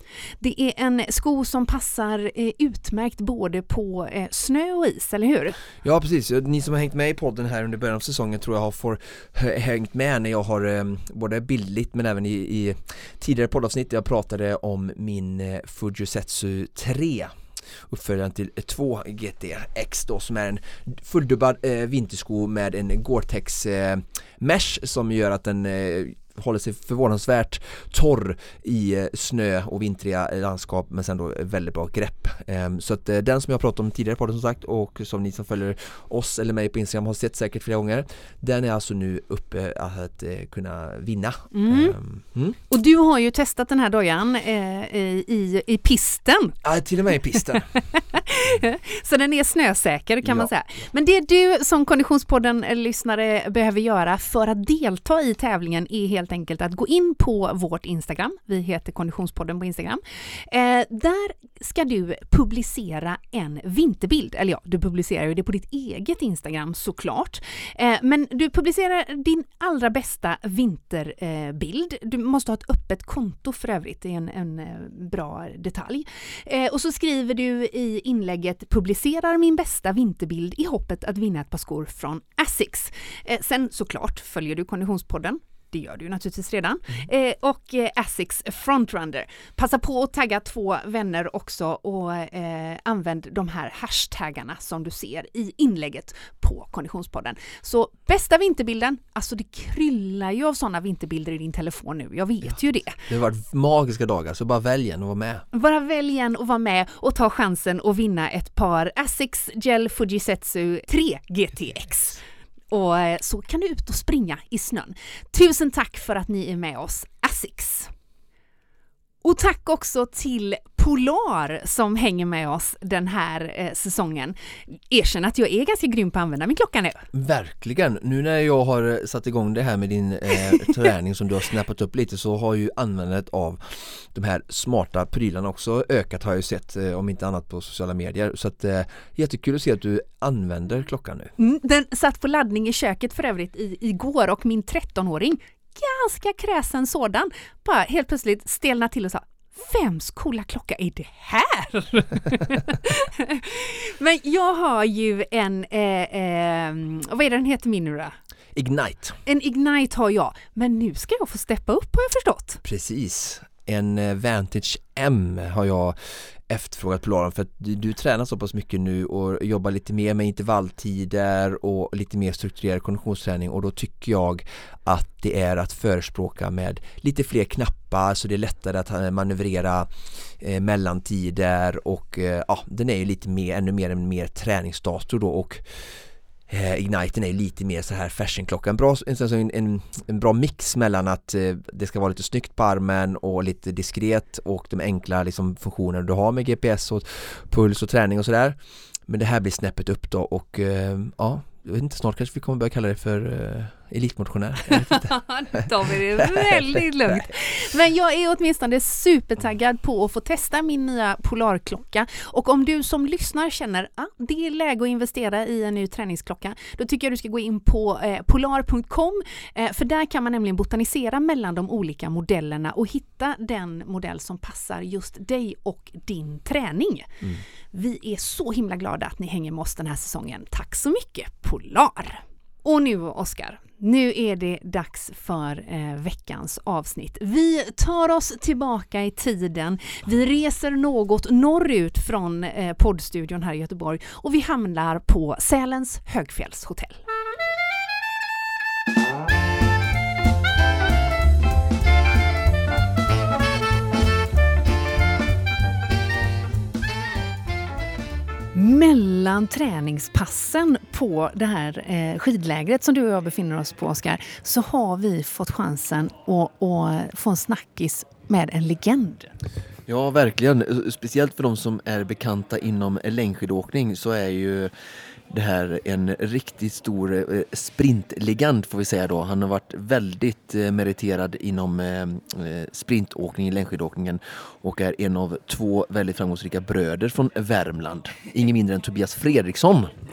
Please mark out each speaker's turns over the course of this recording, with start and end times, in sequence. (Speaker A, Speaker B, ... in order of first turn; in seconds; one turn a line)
Speaker A: 0.4-5.6
Speaker B: 5.8-42.6
Speaker A: 41.5-42.0
Speaker A: 42.7-46.6
Speaker B: 46.6-47.7
Speaker A: 47.9-103.0
Speaker B: 50.2-50.5
Speaker B: 103.1-105.4
Speaker A: 105.5-117.9
Speaker A: 119.2-127.1
Speaker B: 127.1-141.3
Speaker A: 141.4-158.1
Speaker B: 158.5-159.2
Speaker A: 159.2-162.6
Speaker B: 162.6-198.6
Speaker B: 199.1-207.3
Speaker A: 204.8-247.0
Speaker A: 258.5-269.3
Speaker B: 269.9-274.7
Speaker B: 275.3-289.9